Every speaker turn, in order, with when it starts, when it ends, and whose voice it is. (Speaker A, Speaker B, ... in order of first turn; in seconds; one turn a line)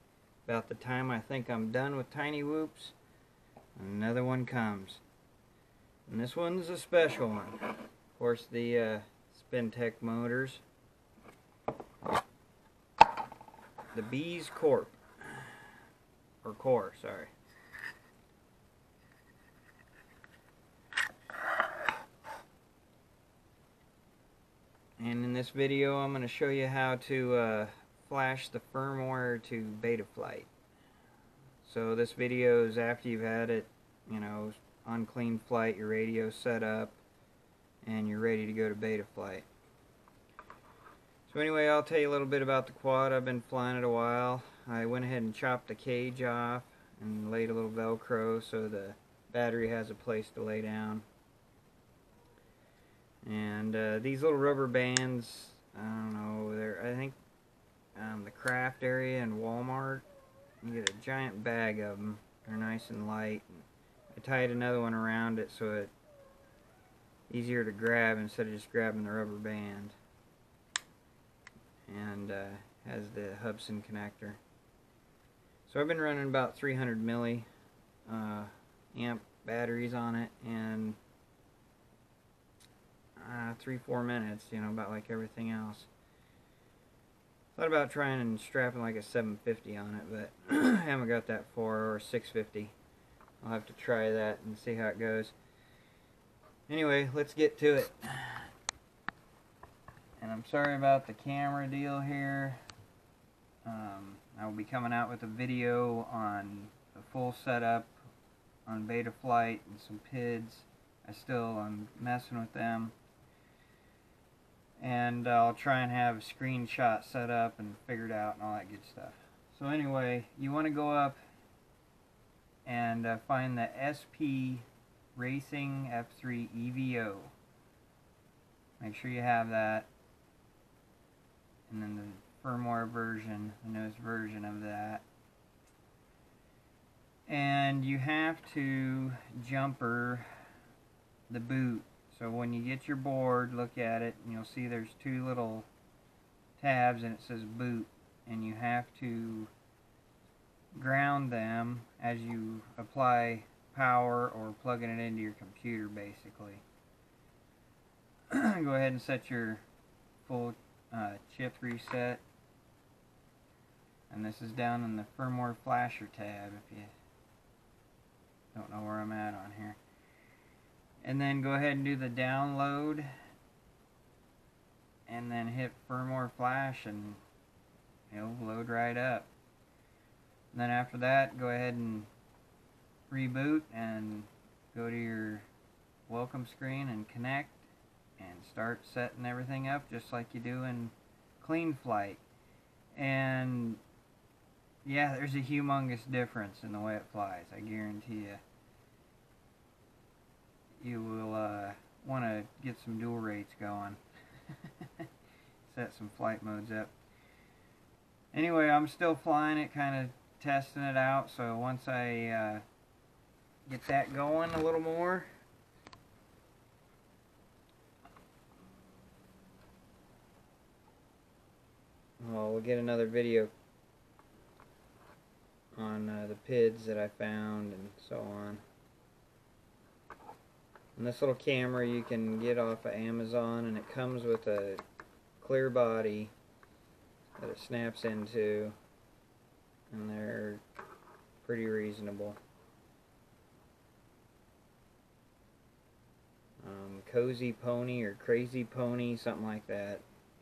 Speaker A: 0.5-2.9
Speaker A: 3.8-5.0
Speaker A: 6.1-7.6
Speaker A: 8.2-10.6
Speaker A: 13.9-15.5
Speaker A: 16.4-17.3
Speaker A: 25.0-30.5
Speaker A: 31.6-37.0
Speaker A: 37.8-39.5
Speaker A: 41.3-51.0
Speaker A: 53.2-57.2
Speaker A: 58.0-60.1
Speaker A: 60.6-65.9
Speaker A: 67.3-70.0
Speaker A: 71.9-74.4
Speaker A: 75.7-77.5
Speaker A: 78.1-81.0
Speaker A: 83.2-85.9
Speaker A: 87.5-92.7
Speaker A: 93.4-95.3
Speaker A: 96.7-98.5
Speaker A: 100.2-102.6
Speaker A: 103.7-108.0
Speaker A: 108.7-112.9
Speaker A: 114.8-121.2
Speaker A: 122.7-127.3
Speaker A: 128.8-129.9
Speaker A: 131.7-135.1
Speaker A: 137.3-140.3
Speaker A: 141.3-145.7
Speaker A: 146.6-149.5
Speaker A: 150.7-156.6
Speaker A: 158.3-159.6
Speaker A: 160.2-162.2
Speaker A: 164.1-166.9
Speaker A: 168.5-169.8
Speaker A: 171.0-173.1
Speaker A: 175.1-177.2
Speaker A: 178.1-179.3
Speaker A: 180.5-182.1
Speaker A: 183.1-185.5
Speaker A: 186.1-192.2
Speaker A: 192.9-193.8
Speaker A: 194.8-198.4
Speaker A: 200.8-204.0
Speaker A: 204.6-205.1
Speaker A: 205.7-206.9
Speaker A: 208.3-212.6
Speaker A: 213.7-215.3
Speaker A: 222.2-223.5
Speaker A: 225.8-228.6
Speaker A: 231.0-234.8
Speaker A: 235.4-236.3
Speaker A: 237.4-238.8
Speaker A: 239.9-240.6
Speaker A: 241.4-242.4
Speaker A: 246.6-250.0